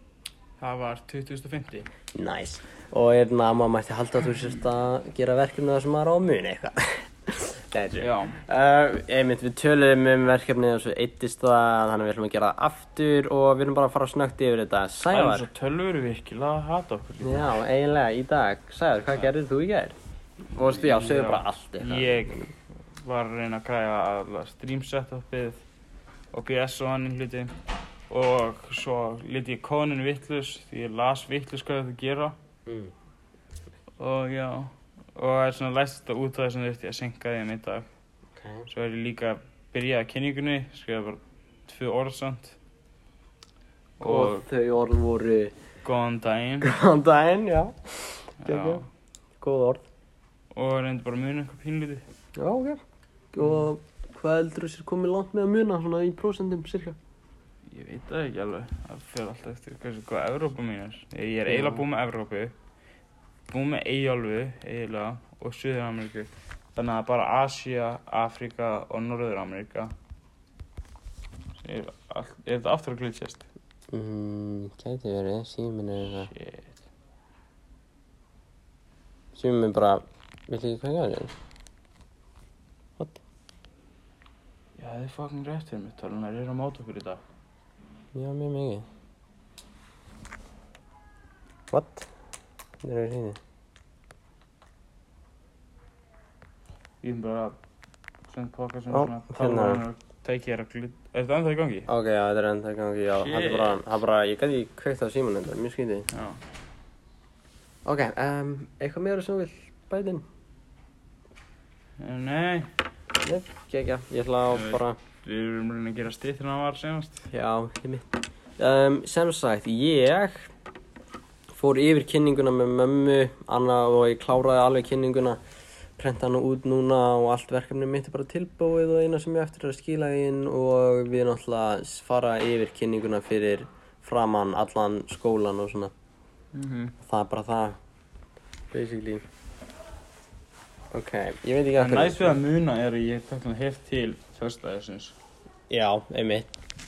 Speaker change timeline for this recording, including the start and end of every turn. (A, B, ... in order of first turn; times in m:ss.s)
0:00.6-0:01.9 A
0:02.1-0:15.5 B
0:08.0-0:08.4 A
0:15.1-0:17.6 A
0:17.2-0:20.0 B
0:20.5-0:22.5 B
0:20.7-0:22.5 A
0:23.0-0:25.6 A
0:26.3-0:27.5 A
0:28.1-0:32.4 A
0:32.7-0:32.9 B
0:34.0-0:37.9 A
0:38.4-0:38.7 B
0:38.7-0:42.6 A
0:44.0-0:44.4 A
0:44.0-0:45.5 B
0:45.8-0:46.7 A
0:46.6-0:48.8 B
0:48.4-0:48.8 A
0:49.4-0:49.8 B
0:50.5-0:52.1 A
0:52.4-0:52.8 B
0:53.3-0:57.0 B
0:57.7-1:02.5 A
1:01.5-1:01.8 B
1:03.5-1:09.9 A
1:11.6-1:13.5 A
1:13.9-1:16.3 B
1:16.0-1:16.8 A
1:19.3-1:21.3 B
1:24.8-1:27.2 A
1:28.2-1:28.9 B
1:31.7-1:32.1 B
1:32.8-1:33.4 B
1:37.0-1:37.6 A
1:38.3-1:41.9 A
1:38.9-1:39.8 B
1:41.9-1:46.1 B
1:43.1-1:43.8 A
1:46.1-1:46.4 A
1:47.8-1:50.2 B
1:52.0-1:52.7 A
1:53.2-1:55.0 B
1:54.5-1:57.3 A
1:57.3-2:00.5 B
2:01.5-2:05.4 B
2:06.0-2:15.9 B
2:16.5-2:17.0 A
2:17.0-2:17.8 B
2:18.7-2:19.2 B
2:20.9-2:22.4 B
2:21.8-2:25.2 A
2:25.7-2:26.5 B